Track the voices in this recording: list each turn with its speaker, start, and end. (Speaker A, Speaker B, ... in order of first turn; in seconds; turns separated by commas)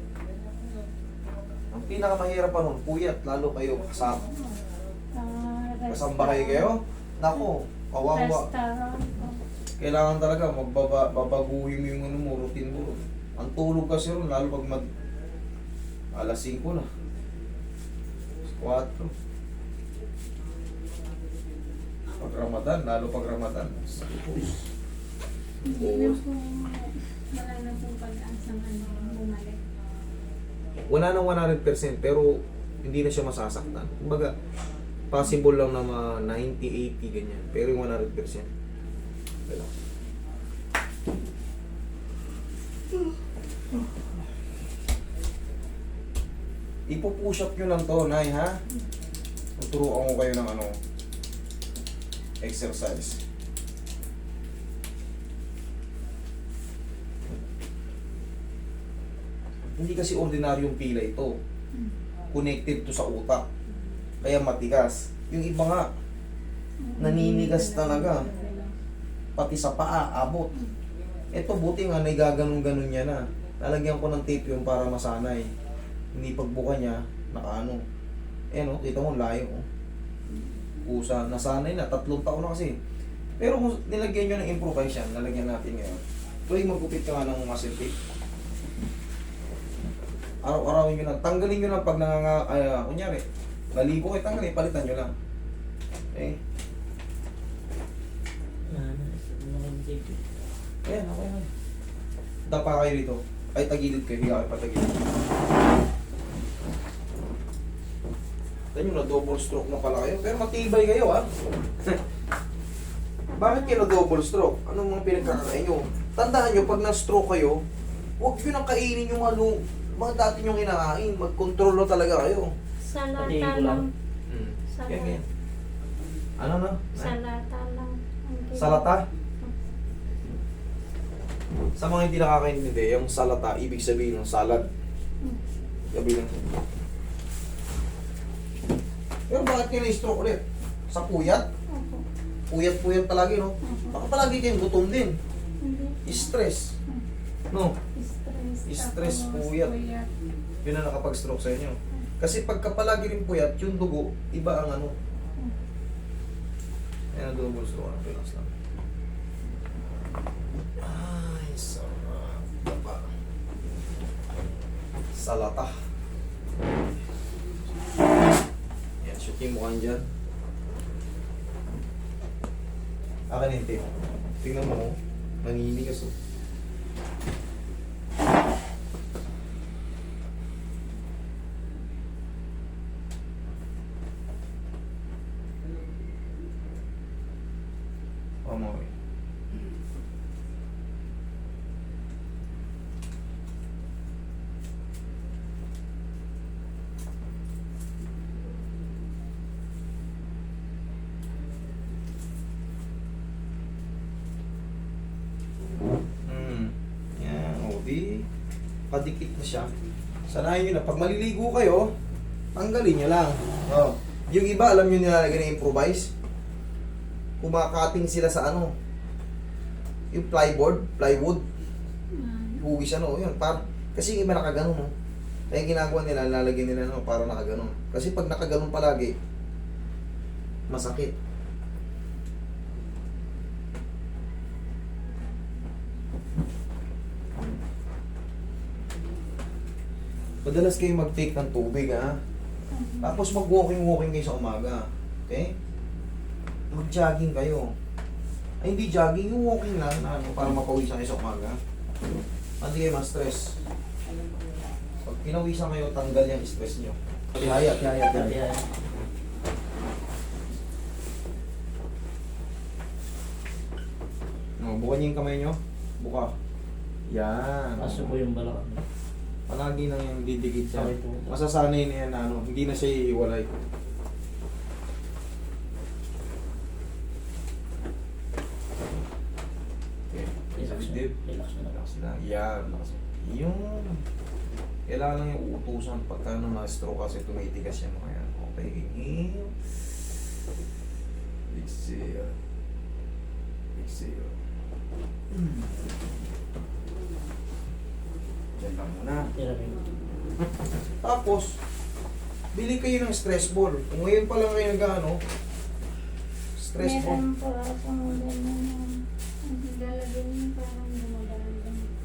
Speaker A: 1.7-4.2, Speaker B: 5.1-6.7, Speaker A: 5.9-8.5, Speaker B: 8.1-9.4, Speaker A: 9.8-14.9, Speaker A: 16.1-16.9, Speaker A: 18.5-19.1, Speaker A: 22.2-24.5, Speaker B: 25.6-29.6, Speaker A: 25.7-26.2, Speaker A: 30.9-34.3, Speaker A: 35.1-38.5, Speaker A: 46.9-48.6, Speaker A: 49.6-50.8, Speaker A: 52.4-53.2, Speaker A: 59.8-61.3, Speaker A: 62.3-63.5, Speaker A: 64.2-65.8, Speaker B: 66.8-68.7, Speaker A: 67.0-68.3, Speaker A: 69.4-70.5, Speaker A: 71.3-75.5, Speaker A: 76.1-77.8, Speaker A: 78.5-79.6, Speaker A: 80.8-82.8, Speaker A: 83.4-87.9, Speaker A: 90.4-95.1, Speaker A: 96.1-96.4, Speaker C: 98.7-100.2, Speaker A: 100.8-101.5, Speaker A: 102.5-105.0, Speaker A: 108.7-111.3, Speaker A: 113.4-117.6, Speaker A: 118.2-122.5, Speaker B: 122.8-123.9, Speaker C: 123.2-123.8, Speaker A: 124.3-125.2, Speaker B: 124.7-125.2, Speaker A: 126.4-127.1, Speaker B: 126.9-129.5, Speaker A: 128.6-129.0, Speaker A: 131.8-134.7, Speaker A: 135.9-136.3, Speaker A: 139.3-141.5, Speaker B: 141.7-142.1, Speaker A: 142.5-145.2, Speaker B: 143.6-144.0, Speaker B: 145.6-146.3, Speaker A: 146.0-146.7, Speaker A: 147.5-147.8, Speaker B: 147.9-150.1, Speaker A: 148.7-149.7, Speaker A: 150.6-154.9, Speaker A: 157.1-158.5, Speaker A: 160.8-163.1, Speaker A: 165.1-165.8, Speaker A: 169.0-170.0, Speaker A: 173.3-176.1, Speaker A: 188.4-188.9, Speaker A: 206.3-208.2, Speaker A: 208.9-209.7, Speaker A: 210.3-211.9, Speaker A: 212.6-216.1, Speaker A: 217.4-218.7, Speaker A: 220.1-221.4, Speaker B: 222.1-222.7, Speaker A: 222.6-224.9, Speaker A: 225.5-229.1, Speaker A: 230.7-231.1, Speaker A: 240.4-242.2, Speaker B: 242.7-243.2, Speaker A: 243.0-245.5, Speaker A: 246.7-247.7, Speaker A: 248.6-251.6, Speaker A: 252.6-253.6, Speaker A: 255.0-258.4, Speaker C: 257.4-258.7, Speaker A: 264.6-266.3, Speaker A: 267.1-268.2, Speaker C: 267.8-268.8, Speaker A: 269.5-273.5, Speaker C: 270.7-271.3, Speaker A: 280.1-284.0, Speaker C: 280.6-281.8, Speaker A: 284.9-289.8, Speaker A: 291.5-292.4, Speaker A: 293.8-294.3, Speaker A: 295.3-295.9, Speaker A: 298.6-299.3, Speaker C: 299.4-299.8, Speaker A: 301.0-301.6, Speaker A: 302.5-305.2, Speaker A: 306.6-307.2, Speaker B: 306.8-311.9